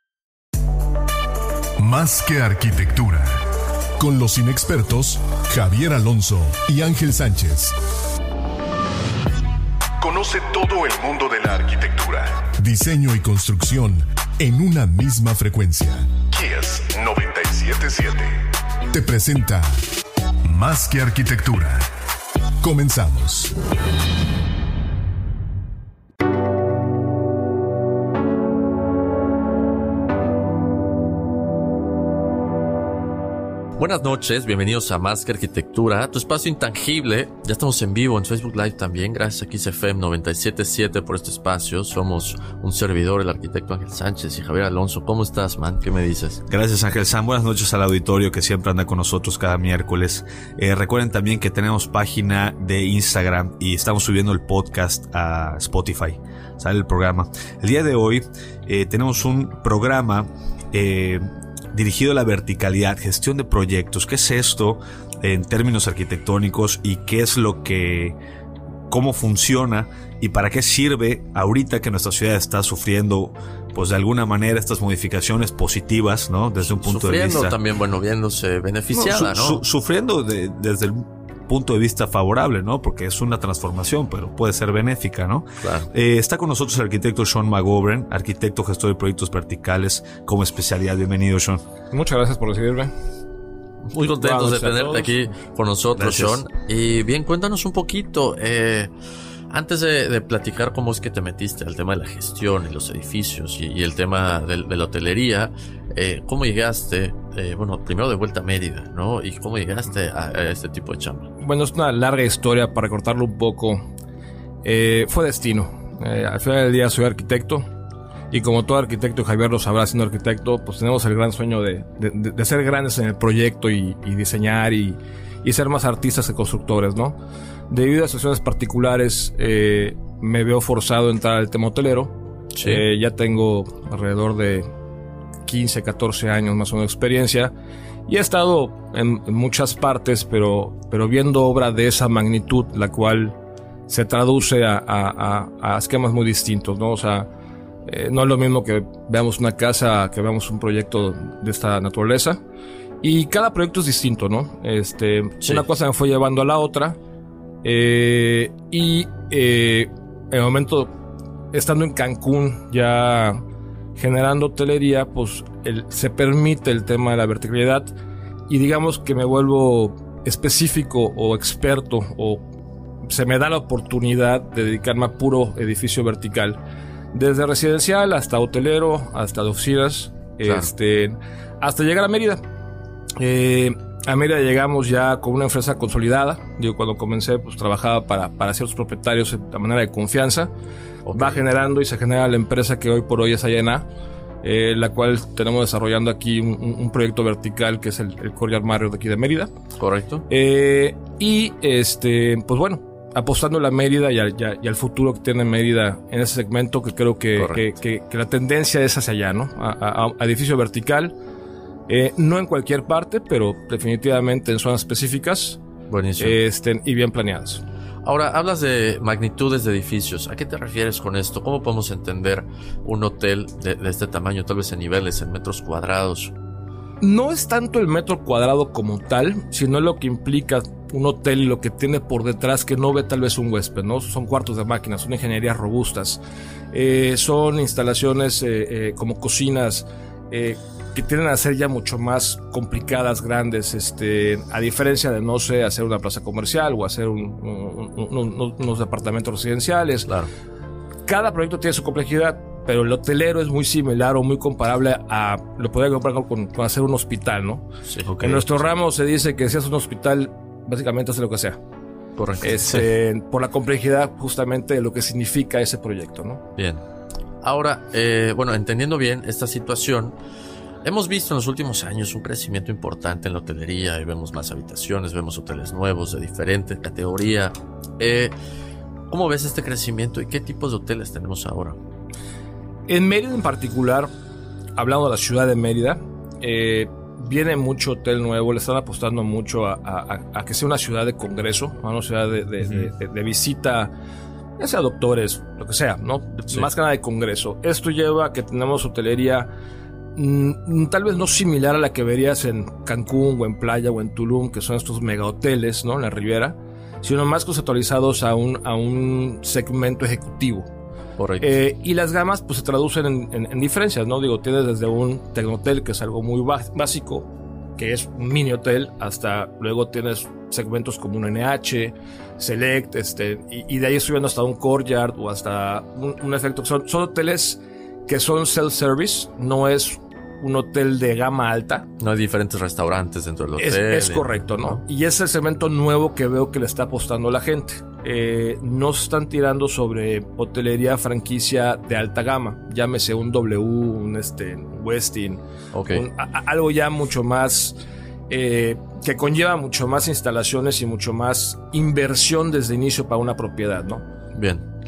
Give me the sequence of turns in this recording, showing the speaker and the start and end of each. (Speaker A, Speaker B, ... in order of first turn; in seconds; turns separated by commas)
Speaker A: 1.8-3.4, Speaker A: 4.0-7.8, Speaker A: 10.0-19.8, Speaker A: 20.5-21.9, Speaker A: 22.6-23.5, Speaker B: 33.8-46.4, Speaker C: 46.5-68.2, Speaker C: 68.9-77.6, Speaker B: 76.7-79.6, Speaker C: 78.9-91.6, Speaker B: 85.6-85.9, Speaker D: 91.9-92.9, Speaker B: 93.9-98.9, Speaker D: 94.2-95.1, Speaker C: 96.0-96.4, Speaker B: 99.5-111.3, Speaker D: 111.4-113.9, Speaker D: 114.6-117.7, Speaker D: 118.3-127.2, Speaker D: 127.7-134.7, Speaker B: 132.6-132.8, Speaker D: 135.4-137.5, Speaker D: 138.1-147.3, Speaker D: 147.9-152.4, Speaker D: 153.0-157.0, Speaker D: 157.6-161.0, Speaker D: 161.5-167.9, Speaker D: 168.5-172.5, Speaker D: 173.1-176.6, Speaker D: 177.1-182.4, Speaker D: 183.2-190.5, Speaker B: 191.1-191.4, Speaker D: 191.1-193.9, Speaker D: 194.4-199.5, Speaker B: 199.8-200.3, Speaker D: 200.3-211.2, Speaker B: 207.4-207.7, Speaker D: 211.9-215.6, Speaker B: 215.9-216.4, Speaker D: 216.2-217.6, Speaker B: 218.0-226.3, Speaker D: 227.0-236.2, Speaker D: 236.7-250.1, Speaker D: 251.1-257.7, Speaker C: 258.1-258.5, Speaker D: 258.2-261.6, Speaker B: 262.2-262.6, Speaker D: 262.4-266.4, Speaker B: 266.6-266.8, Speaker B: 267.4-270.1, Speaker B: 270.8-278.3, Speaker B: 279.1-281.8, Speaker D: 282.9-284.1, Speaker D: 284.8-293.9, Speaker D: 294.6-299.5, Speaker D: 300.2-310.7, Speaker B: 311.2-311.6, Speaker D: 311.4-331.9, Speaker B: 332.0-334.8, Speaker D: 333.6-347.8, Speaker B: 345.7-346.1, Speaker D: 348.3-354.1, Speaker B: 354.3-354.7